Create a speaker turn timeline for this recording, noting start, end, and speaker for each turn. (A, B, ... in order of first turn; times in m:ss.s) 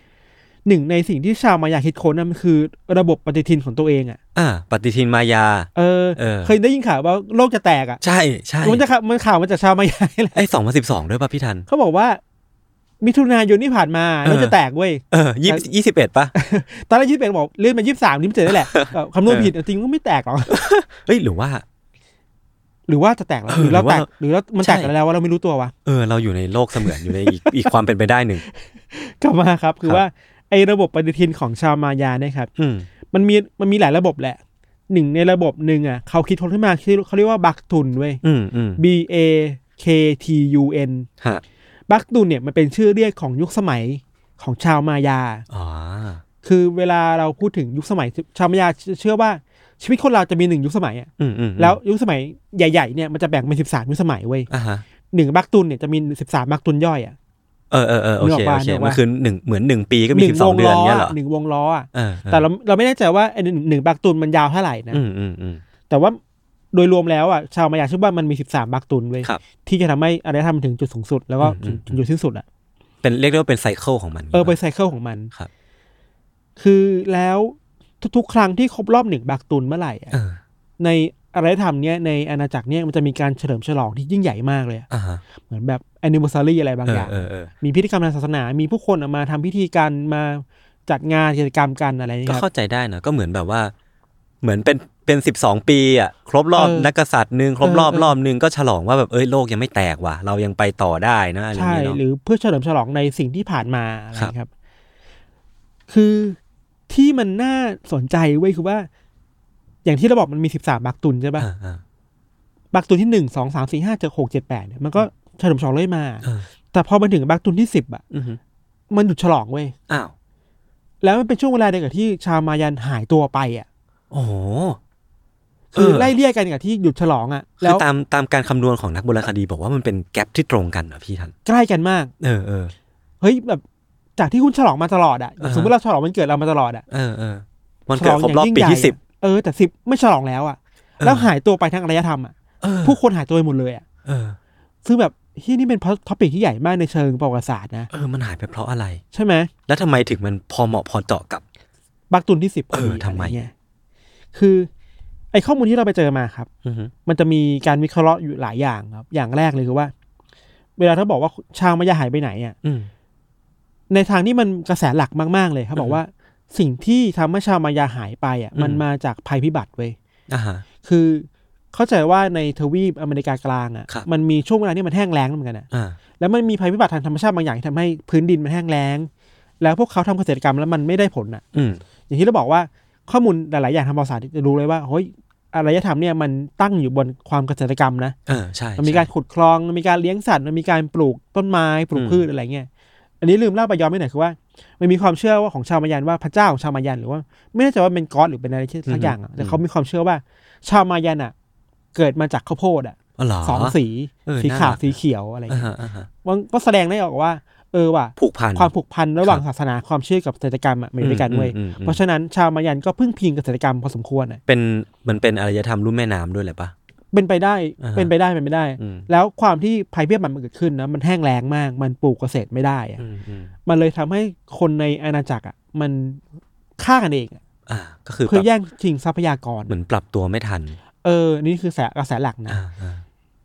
0:00.7-0:04.2 A
0:04.4-0:06.5 B
0:05.8-0:08.0 A
0:08.0-0:08.8 B
0:08.6-0:10.4 A
0:10.3-0:11.7 B
0:11.7-0:12.2 A
0:13.0-0:15.6 A
0:14.2-0:14.6 B
0:15.1-0:16.3 B
0:16.4-0:20.6 A
0:18.5-0:19.5 B
0:20.5-0:21.6 B
0:22.9-0:25.7 A
0:23.5-0:24.1 B
0:24.6-0:24.9 B
0:25.8-0:28.4 B
0:26.8-0:27.7 A
0:28.5-0:32.5 A
0:32.6-0:32.9 B
0:33.1-0:38.2 A
0:38.2-0:38.8 B
0:38.8-0:41.1 A
0:41.9-0:45.5 A
0:45.5-0:46.2 B
0:46.4-0:54.5 A
0:51.2-0:51.8 B
0:54.5-0:54.8 B
0:55.1-0:57.2 A
0:57.7-1:01.2 B
0:58.2-0:59.0 A
1:00.1-1:05.0 A
1:01.9-1:02.5 B
1:04.9-1:05.6 B
1:05.9-1:06.2 A
1:06.7-1:12.4 A
1:11.4-1:12.0 B
1:13.0-1:14.6 B
1:14.3-1:15.3 A
1:16.6-1:20.1 A
1:20.1-1:20.4 B
1:20.8-1:24.9 A
1:24.9-1:25.2 B
1:25.5-1:32.4 A
1:26.9-1:27.5 B
1:32.3-1:33.7 B
1:34.4-1:42.0 B
1:36.6-1:36.9 A
1:37.6-1:38.1 A
1:41.5-1:44.5 A
1:45.9-1:46.4 A
1:46.9-1:48.9 A
1:49.8-1:51.5 A
1:51.4-1:51.8 B
1:52.7-1:58.0 A
1:58.1-1:58.4 B
1:58.9-1:59.8 A
2:01.0-2:03.7 A
2:04.1-2:04.8 B
2:05.7-2:07.8 A
2:05.8-2:06.1 B
2:07.6-2:11.3 B
2:11.5-2:12.1 A
2:12.2-2:12.7 B
2:13.2-2:13.6 A
2:14.2-2:16.8 A
2:15.4-2:15.7 B
2:16.9-2:19.0 B
2:18.0-2:23.8 A
2:21.0-2:21.3 B
2:22.6-2:23.0 B
2:24.0-2:24.4 B
2:24.8-2:27.9 A
2:27.9-2:29.0 B
2:29.1-2:29.5 A
2:29.7-2:31.4 B
2:32.1-2:33.5 A
2:32.7-2:33.4 B
2:34.3-2:34.7 A
2:35.3-2:36.5 A
2:36.6-2:36.9 B
2:37.1-2:39.9 A
2:40.8-2:42.6 A
2:42.6-2:42.9 B
2:43.9-2:50.0 A
2:48.6-2:48.8 B
2:50.3-2:50.6 B
2:50.8-2:55.7 A
2:55.7-2:56.0 B
2:56.2-2:59.1 A
2:59.6-3:01.4 A
3:01.5-3:01.8 B
3:02.1-3:08.2 A
3:08.3-3:09.1 B
3:08.8-3:12.7 A
3:11.9-3:12.2 B
3:13.2-3:21.3 A
3:18.9-3:19.6 B
3:22.0-3:25.7 A
3:23.2-3:25.0 B
3:25.5-3:26.1 B
3:26.2-3:34.4 A
3:28.2-3:28.7 B
3:31.0-3:32.0 B
3:34.5-3:36.7 B
3:37.1-3:43.0 A
3:37.8-3:38.1 B
3:38.8-3:39.1 B
3:43.0-3:43.5 B
3:43.7-3:46.2 A
3:46.8-3:47.4 A
3:47.7-3:48.5 B
3:48.3-3:49.8 A
3:49.7-3:50.8 B
3:51.0-3:52.6 A
3:52.5-3:53.0 B